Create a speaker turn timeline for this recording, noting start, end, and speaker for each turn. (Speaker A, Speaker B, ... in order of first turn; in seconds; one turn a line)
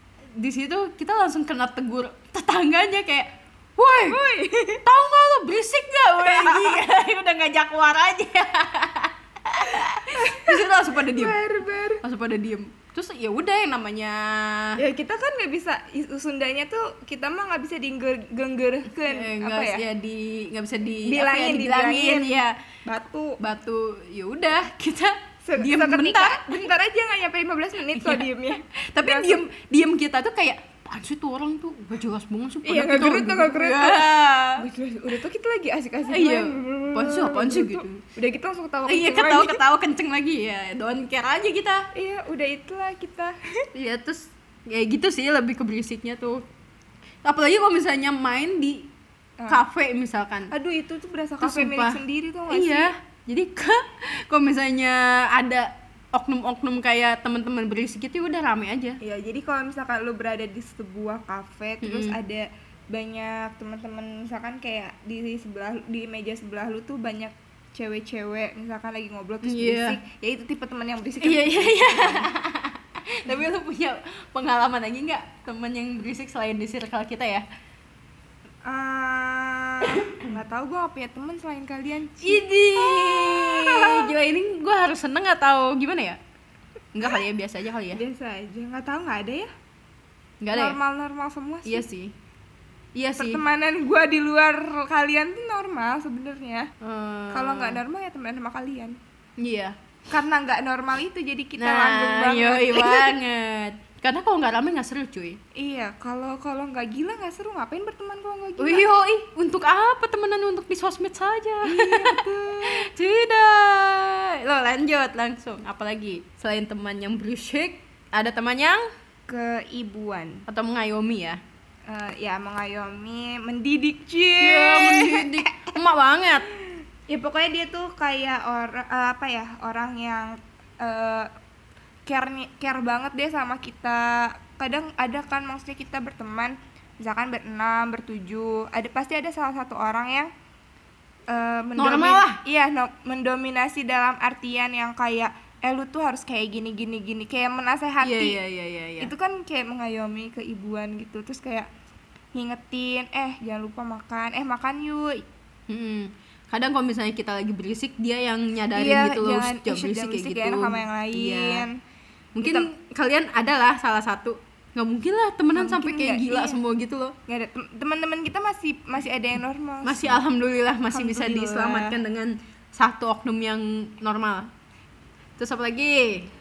Speaker A: 0.3-4.2
Speaker B: 4.0-4.8
Speaker A: 4.8-11.4
Speaker B: 6.2-6.8
Speaker B: 9.7-12.0
Speaker A: 12.0-14.8
Speaker B: 14.8-19.8
Speaker A: 19.0-22.6
Speaker B: 21.0-22.3
Speaker B: 22.8-23.4
Speaker A: 23.4-26.6
Speaker B: 25.4-29.4
Speaker A: 27.9-34.6
Speaker B: 32.6-39.6
Speaker A: 36.1-38.0
Speaker A: 38.9-41.9
Speaker B: 41.9-43.4
Speaker A: 43.7-46.5
Speaker A: 47.2-48.9
Speaker A: 49.5-50.5
Speaker B: 50.5-52.9
Speaker A: 51.4-59.0
Speaker B: 59.0-72.3
Speaker A: 61.8-62.2
Speaker A: 69.4-70.0
Speaker A: 71.2-77.4
Speaker B: 78.7-84.1
Speaker A: 82.2-86.2
Speaker A: 86.9-88.0
Speaker B: 87.9-89.5
Speaker A: 90.4-90.8
Speaker B: 90.5-91.8
Speaker A: 91.7-92.1
Speaker A: 93.0-93.4
Speaker B: 93.2-96.7
Speaker A: 96.8-97.8
Speaker B: 97.3-99.0
Speaker A: 99.4-99.8
Speaker B: 100.1-103.1
Speaker A: 101.6-105.4
Speaker B: 105.5-108.8
Speaker A: 108.6-118.8
Speaker B: 111.6-112.9
Speaker B: 119.3-120.4
Speaker A: 120.5-121.4
Speaker B: 121.9-125.7
Speaker A: 124.4-126.5
Speaker B: 127.1-131.3
Speaker B: 132.1-140.3
Speaker B: 141.3-148.4
Speaker A: 141.8-142.4
Speaker A: 148.0-149.1
Speaker B: 149.0-151.7
Speaker B: 152.3-155.2
Speaker A: 155.7-161.7
Speaker B: 158.7-161.8
Speaker A: 162.3-167.2
Speaker B: 162.4-162.7
Speaker B: 165.5-166.6
Speaker B: 167.3-170.2
Speaker A: 169.8-174.5
Speaker B: 170.9-172.0
Speaker A: 175.4-176.3